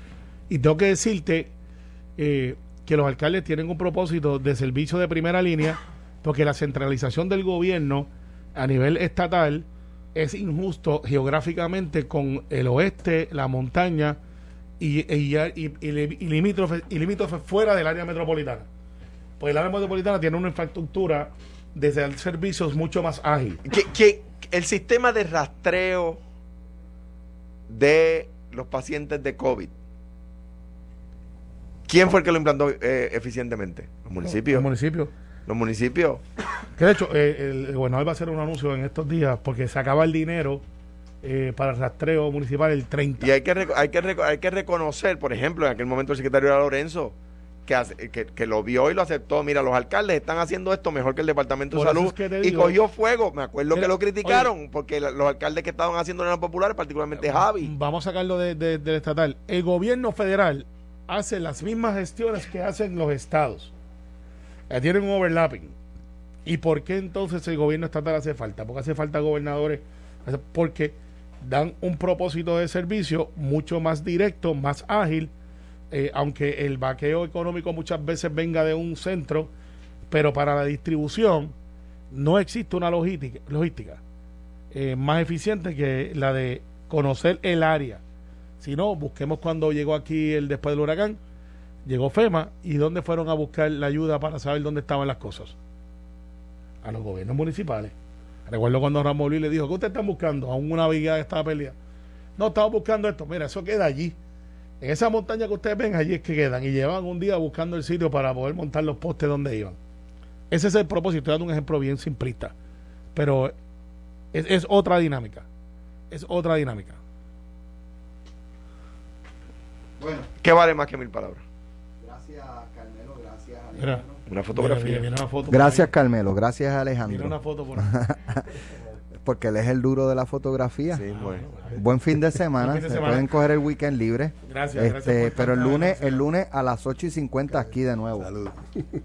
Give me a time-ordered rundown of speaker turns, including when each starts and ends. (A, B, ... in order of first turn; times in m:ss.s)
0:00.5-0:01.5 A
0:02.2-0:14.2 A
0:14.8-0:18.7 A
0:19.4-0:23.6 A
0:23.6-0:26.2 B
0:27.7-0:29.7 B
0:31.9-0:34.7 B
0:34.2-0:35.1 A
0:35.4-0:36.2 B
0:36.8-0:40.6 A
0:41.2-0:43.3 A
0:43.2-0:57.7 B
0:51.7-0:52.8 A
0:53.7-0:54.5 A
0:57.2-1:03.7 A
1:04.7-1:05.8 A
1:06.4-1:15.3 A
1:15.9-1:19.5 A
1:20.1-1:21.5 A
1:22.1-1:24.0 A
1:24.7-1:28.0 A
1:28.6-1:31.2 A
1:31.8-1:35.6 A
1:36.8-1:37.9 A
1:38.5-1:41.8 A
1:42.4-1:44.2 A
1:44.8-1:49.8 A
1:50.5-1:52.5 A
1:53.1-1:53.5 A
1:54.3-1:55.5 A
1:56.1-1:57.0 A
2:00.0-2:00.3 C
2:00.4-2:01.4 B
2:02.0-2:04.2 C
2:03.8-2:05.9 A
2:04.3-2:05.0 B
2:05.5-2:08.6 C
2:07.1-2:07.9 A
2:09.2-2:11.0 C
2:10.9-2:11.5 B
2:11.1-2:11.8 A
2:11.7-2:18.3 C
2:12.6-2:13.3 A
2:14.4-2:16.2 A